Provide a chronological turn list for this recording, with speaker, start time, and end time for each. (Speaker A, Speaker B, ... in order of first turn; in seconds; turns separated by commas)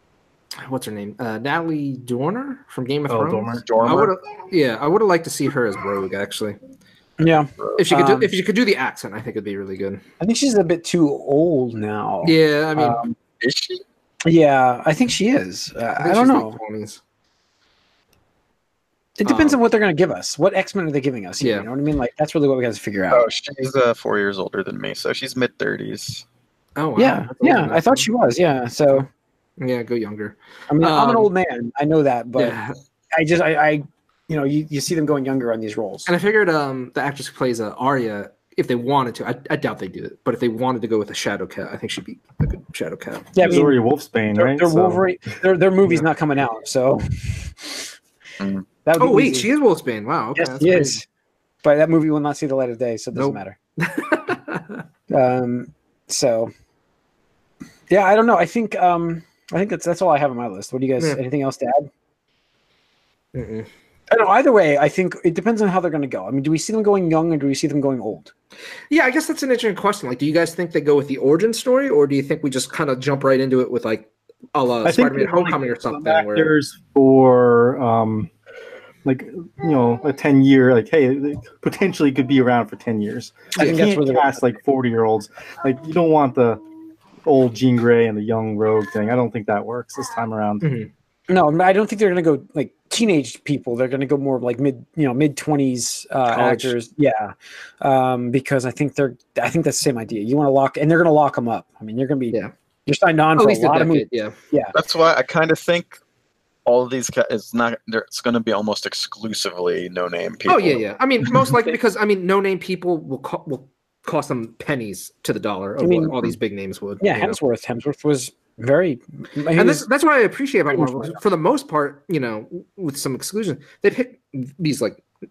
Speaker A: 0.6-6.6, Speaker B: 3.1-3.7, Speaker C: 3.6-4.1, Speaker D: 7.2-8.3, Speaker A: 7.8-10.0, Speaker D: 10.2-13.1, Speaker A: 12.2-13.0, Speaker C: 13.4-13.8, Speaker D: 14.2-16.6, Speaker A: 16.0-17.0, Speaker D: 19.2-23.2, Speaker A: 19.2-19.6, Speaker A: 21.4-21.7, Speaker C: 23.1-26.2, Speaker A: 26.8-28.1, Speaker D: 27.0-29.1, Speaker A: 29.6-31.3, Speaker D: 30.7-32.6, Speaker A: 32.4-32.8, Speaker D: 33.1-36.1, Speaker A: 36.1-43.3, Speaker D: 43.3-43.8, Speaker B: 43.4-45.0, Speaker D: 44.3-47.9, Speaker C: 48.4-48.6, Speaker D: 48.8-49.5, Speaker A: 49.0-51.0, Speaker D: 50.4-51.0, Speaker D: 51.6-53.5, Speaker A: 53.1-54.8, Speaker D: 55.1-56.5, Speaker D: 57.9-61.9, Speaker A: 63.3-63.7, Speaker D: 64.1-68.3, Speaker A: 68.9-76.5, Speaker B: 74.8-78.3, Speaker B: 79.0-86.6, Speaker D: 83.5-84.5, Speaker B: 87.2-90.7, Speaker A: 90.6-90.9, Speaker D: 91.3-104.7, Speaker A: 96.2-96.7, Speaker A: 103.4-104.3, Speaker C: 104.7-106.0, Speaker C: 106.7-110.8, Speaker A: 110.5-117.4, Speaker D: 115.8-116.3, Speaker D: 117.0-119.8, Speaker A: 119.5-125.0, Speaker D: 120.7-121.2